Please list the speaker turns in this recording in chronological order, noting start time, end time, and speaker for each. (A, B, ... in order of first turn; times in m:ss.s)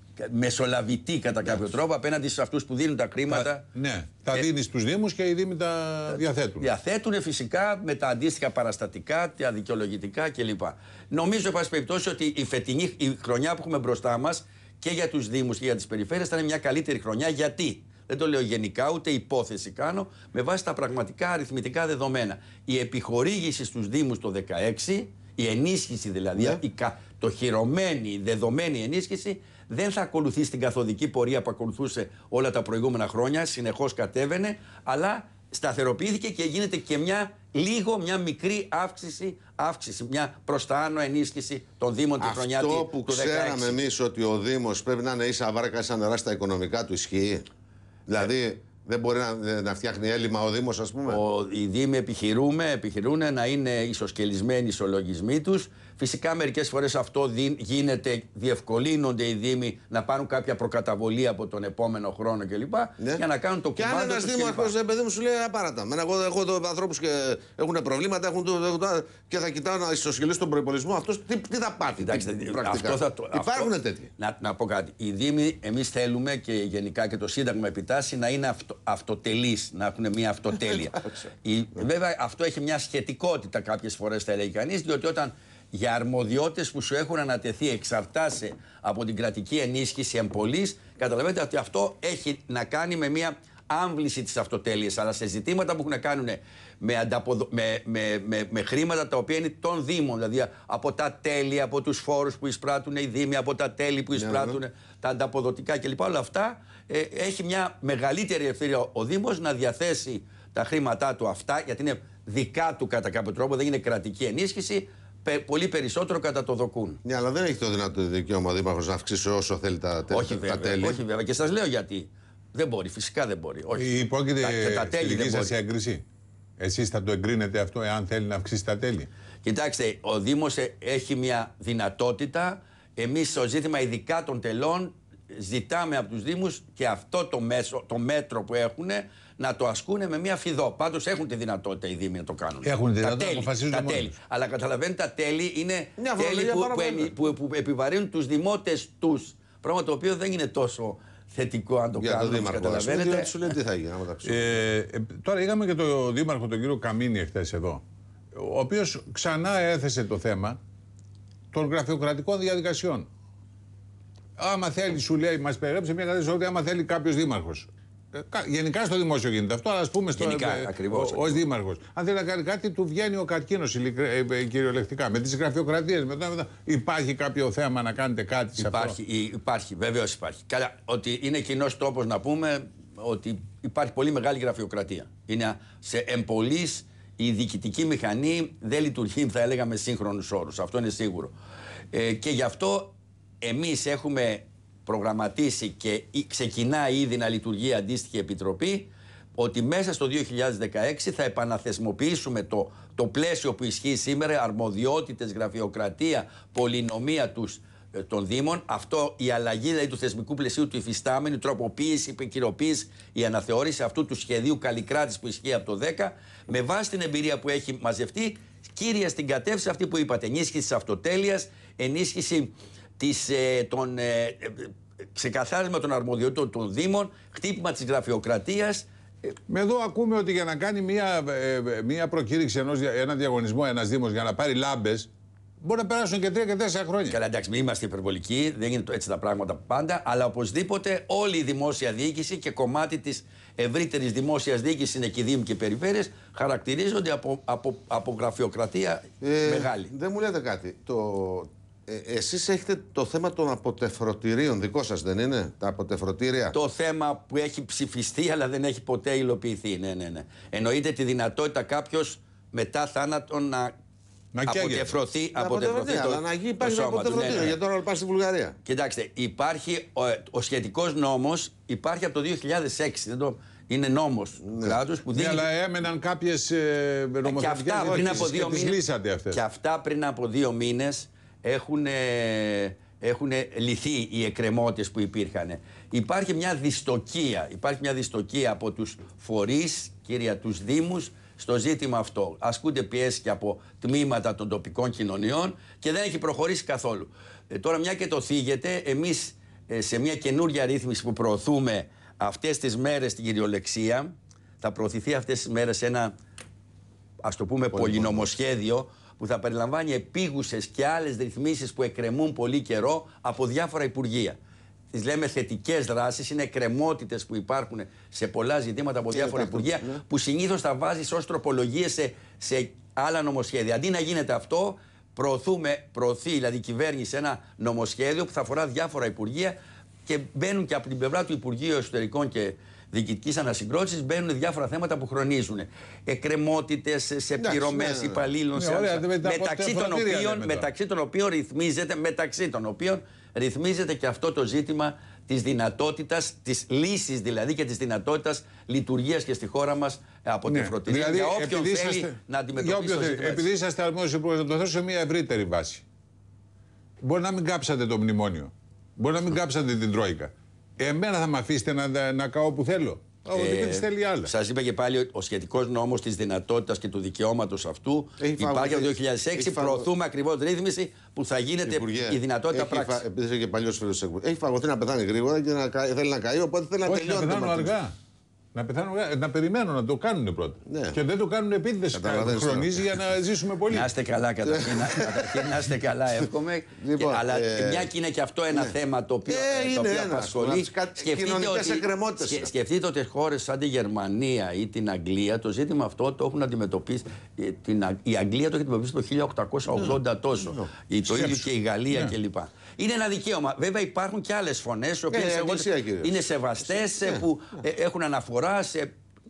0:00.2-0:03.7 A
0:03.3-0:06.6 B
0:06.6-0:43.8 A
0:42.2-0:47.4 C
0:48.1-0:51.2 C
0:51.1-1:04.7 A
1:03.8-1:14.1 C
1:12.0-1:57.0 A
1:44.1-1:44.6 C
1:57.0-2:01.0 C
2:00.1-2:05.5 A
2:03.8-2:06.0 B
2:06.6-2:09.1 B
2:09.4-2:33.3 A
2:22.6-2:24.1 B
2:26.0-2:27.1 C
2:32.0-2:34.6 C
2:34.2-2:37.8 B
2:38.3-2:40.6 B
2:41.5-2:43.1 B
2:44.4-2:59.0 B
2:50.2-2:51.4 A
2:58.6-3:11.3 A
3:11.9-3:49.3 A
3:49.5-3:55.1 B
3:55.6-3:57.2 B
3:57.1-4:09.9 A
4:09.2-4:16.5 C
4:16.5-4:23.7 A
4:24.3-4:24.9 B
4:24.4-4:27.6 A
4:25.3-4:28.6 C
4:28.6-4:35.5 A
4:34.4-4:34.8 C
4:35.1-4:39.4 B
4:37.2-5:06.1 A
4:37.8-4:38.3 C
5:07.2-5:14.4 A
5:07.7-5:08.3 C
5:14.9-5:53.5 A
5:19.1-5:20.0 C
5:37.4-5:38.3 C
5:38.5-5:40.7 B
5:50.5-5:55.8 B
5:57.0-6:04.3 B
6:03.3-6:13.0 A
6:08.2-6:09.9 C
6:11.6-6:17.8 C
6:16.8-6:17.9 B
6:18.5-6:23.9 B
6:20.6-6:21.0 C
6:21.9-6:23.0 C
6:23.7-6:48.9 A
6:24.4-6:25.4 C
6:26.8-6:27.9 C
6:29.3-6:32.5 C
6:40.4-6:40.7 C
6:41.1-6:42.1 B
6:45.1-6:47.3 C